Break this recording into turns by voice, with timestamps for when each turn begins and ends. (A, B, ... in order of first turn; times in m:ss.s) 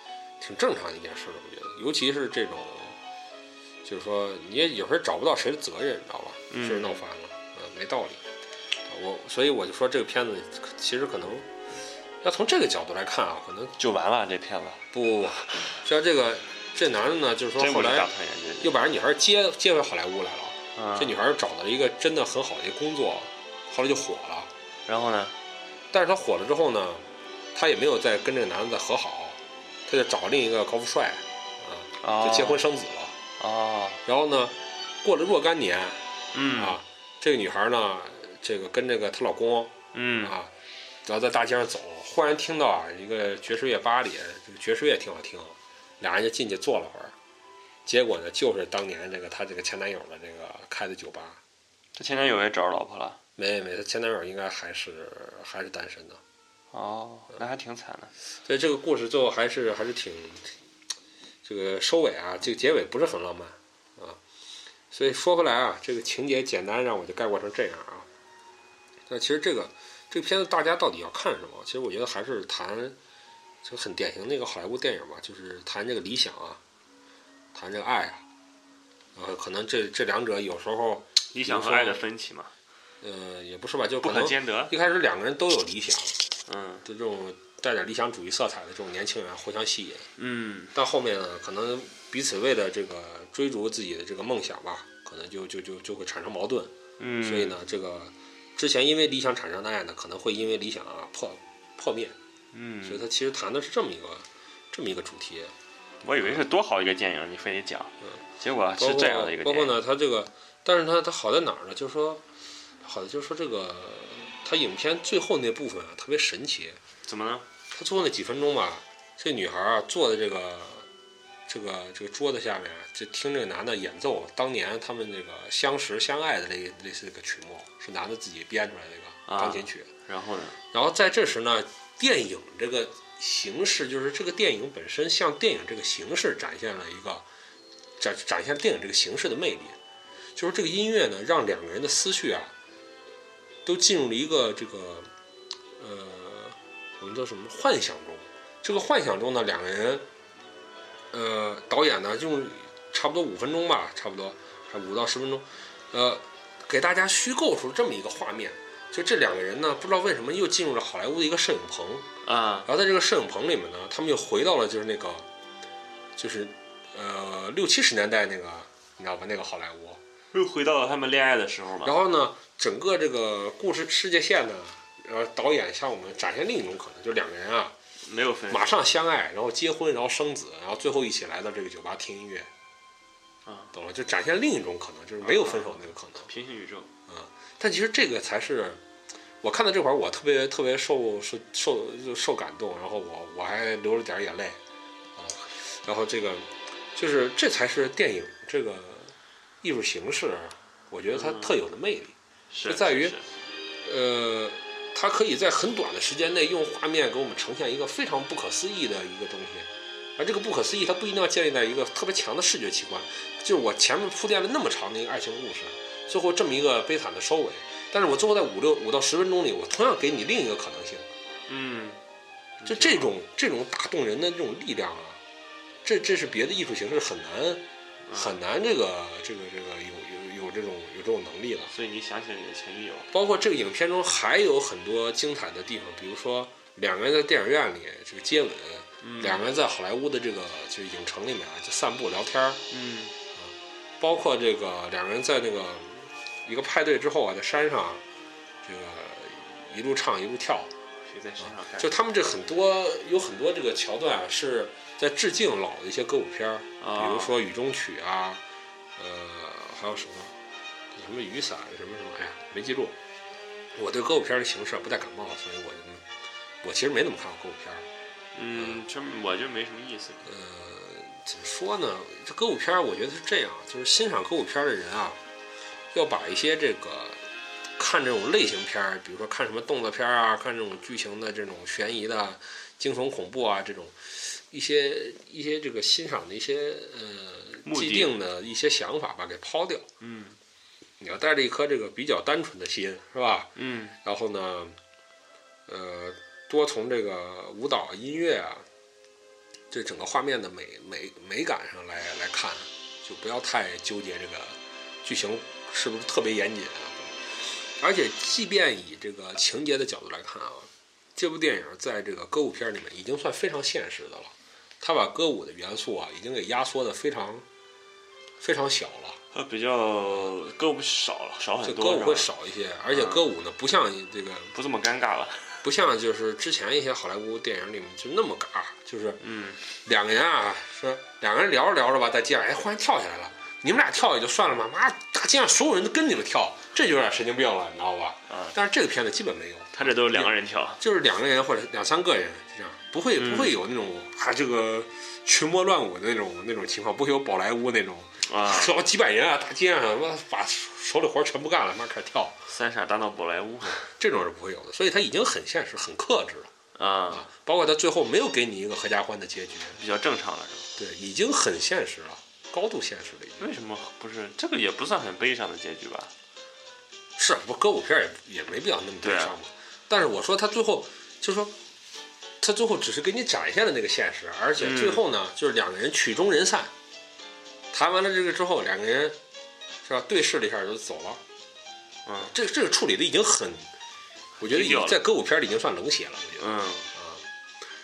0:00.4-0:03.0 A
0:03.8-0:08.2 A
0:06.5-0:07.0 B
0:08.9-0:11.5 A
0:12.2-0:13.8 A
0:13.8-0:14.8 B
0:14.9-0:24.5 A
0:17.6-0:18.7 B
0:20.7-0:21.2 B
0:24.8-0:25.3 B
0:25.9-0:33.2 A
0:32.0-0:32.6 B
0:33.4-0:34.0 B
0:34.0-0:40.5 A
0:36.3-0:36.8 B
0:39.9-0:40.3 B
0:41.0-0:47.1 A
0:47.8-0:51.4 A
0:51.9-0:53.2 B
0:53.4-0:56.2 A
0:56.7-0:58.1 B
0:58.4-1:00.5 A
1:01.4-1:04.2 A
1:04.9-1:08.1 A
1:09.1-1:13.0 A
1:13.6-1:16.6 A
1:17.5-1:18.2 A
1:19.1-1:22.0 A
1:21.3-1:22.5 B
1:23.0-1:26.2 A
1:24.0-1:24.7 B
1:26.4-1:26.8 B
1:26.8-1:30.1 A
1:30.2-1:30.7 B
1:30.7-1:42.1 A
1:37.0-1:37.6 B
1:42.5-1:43.0 B
1:42.8-1:45.5 A
1:46.0-1:49.8 B
1:46.2-1:46.4 A
1:48.8-1:52.2 A
1:52.8-1:56.8 A
1:57.0-1:57.4 B
1:57.7-2:00.9 A
2:01.5-2:09.9 A
2:09.3-2:10.6 B
2:10.7-2:17.2 A
2:18.0-2:19.8 A
2:20.3-2:22.5 A
2:23.6-2:25.1 A
2:25.8-2:30.0 A
2:31.1-2:42.1 A
2:42.2-2:42.7 B
2:42.6-2:45.2 A
2:46.2-2:50.0 A
2:50.3-2:51.9 B
2:51.8-2:57.7 A
2:58.0-2:58.7 B
2:58.5-3:02.5 A
3:03.4-3:03.7 B
3:03.7-3:06.3 A
3:05.2-3:06.9 B
3:07.1-3:08.8 A
3:09.4-3:14.6 A
3:15.2-3:22.1 A
3:21.1-3:21.5 B
3:22.5-3:23.3 B
3:22.7-3:23.2 A
3:23.8-3:41.1 A
3:41.5-3:42.0 B
3:42.6-3:43.1 B
3:42.6-3:45.2 A
3:45.8-3:51.7 A
3:48.1-3:48.4 B
3:51.7-3:53.1 B
3:53.1-4:02.6 A
3:59.0-3:59.5 B
4:02.7-4:03.1 B
4:03.4-4:08.0 A
4:08.6-4:10.7 A
4:11.0-4:11.9 B
4:11.4-4:18.4 A
4:16.8-4:17.3 B
4:19.0-4:20.3 A
4:20.9-4:23.0 A
4:23.7-4:26.0 A
4:26.6-4:27.8 A
4:28.3-4:30.2 B
4:28.5-4:28.8 A
4:30.2-4:35.2 A
4:35.9-4:37.2 A
4:37.8-4:49.9 A
4:47.6-4:48.2 B
4:50.0-4:50.4 B
4:51.0-4:53.5 A
4:53.6-4:54.0 B
4:54.0-4:54.8 A
4:55.7-4:58.6 A
4:59.7-5:17.4 A
5:18.4-5:19.2 A
5:19.3-5:22.3 B
5:21.6-5:24.5 A
5:22.9-5:23.3 B
5:24.5-5:25.6 B
5:25.6-5:29.2 A
5:29.2-5:29.6 B
5:29.8-5:52.4 A
5:38.3-5:38.5 B
5:39.7-5:40.8 B
5:43.2-5:43.6 B
5:48.2-5:48.7 B
5:52.5-5:53.9 B
5:53.8-5:56.5 A
5:56.7-5:57.3 B
5:57.1-5:59.8 A
5:59.8-6:00.7 B
6:00.8-6:03.5 A
6:03.4-6:06.1 B
6:07.2-6:11.5 A
6:09.0-6:09.3 B
6:12.4-6:16.7 A
6:14.6-6:15.0 B
6:17.7-6:19.2 A
6:19.8-6:21.2 A
6:22.0-6:22.3 B
6:22.2-6:23.7 A
6:24.4-6:25.0 B
6:24.4-6:27.2 A
6:26.4-6:26.9 B